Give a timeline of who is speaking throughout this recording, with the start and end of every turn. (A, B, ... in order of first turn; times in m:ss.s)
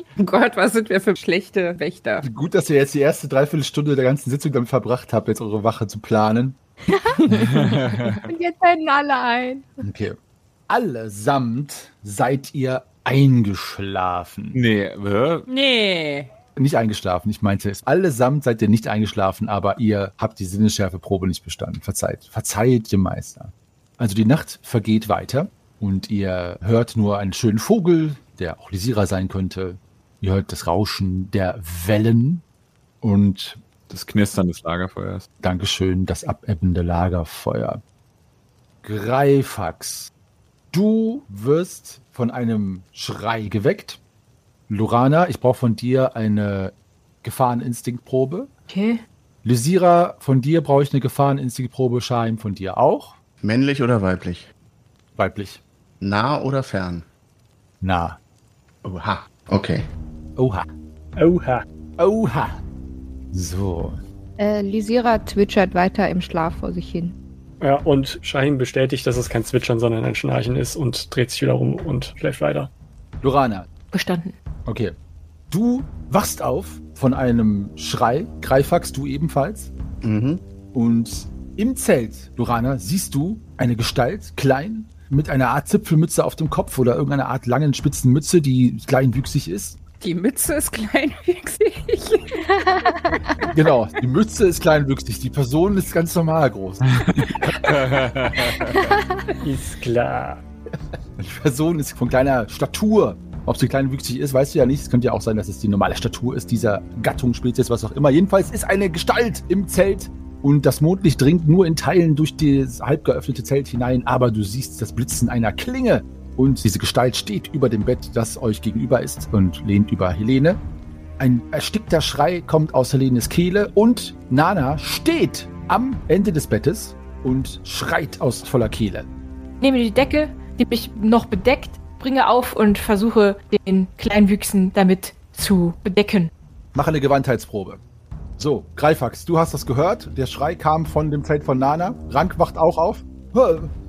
0:00.2-0:02.2 A
0:02.2-0:06.6 B
0:06.9-0:09.8 C
0:07.3-0:08.2 D
0:09.8-0:10.2 B
0:10.7-0:14.6 B
0:14.5-0:15.5 D
0:15.5-0:16.3 A
0:16.6-0:32.4 B
0:33.0-0:33.6 B
0:33.9-0:35.3 D
0:35.4-0:37.8 B
0:38.8-0:40.1 B
0:40.7-0:44.0 B
0:44.7-0:48.5 B
0:48.7-0:49.0 E
0:49.4-0:53.2 B
0:53.4-0:54.5 F
0:55.2-0:55.6 B
0:56.0-0:57.0 F
0:57.8-0:58.2 B
0:58.8-0:59.8 F
1:00.4-1:00.7 B
1:01.2-1:01.6 G
1:02.0-1:02.6 B
1:03.3-1:04.0 B
1:04.4-1:07.1 C
1:07.6-1:12.7 G
1:13.2-1:13.7 B
1:13.9-1:14.4 E
1:14.6-1:14.9 B
1:15.5-1:19.7 B
1:20.0-1:20.4 F
1:20.7-1:29.8 B
1:30.0-1:32.4 A
1:33.4-1:36.9 B
1:37.0-1:38.9 D
1:39.4-1:40.4 G
1:41.2-2:00.6 B
2:01.2-2:09.1 B
2:09.6-2:16.3 E
2:16.7-2:17.8 B
2:18.4-2:23.7 B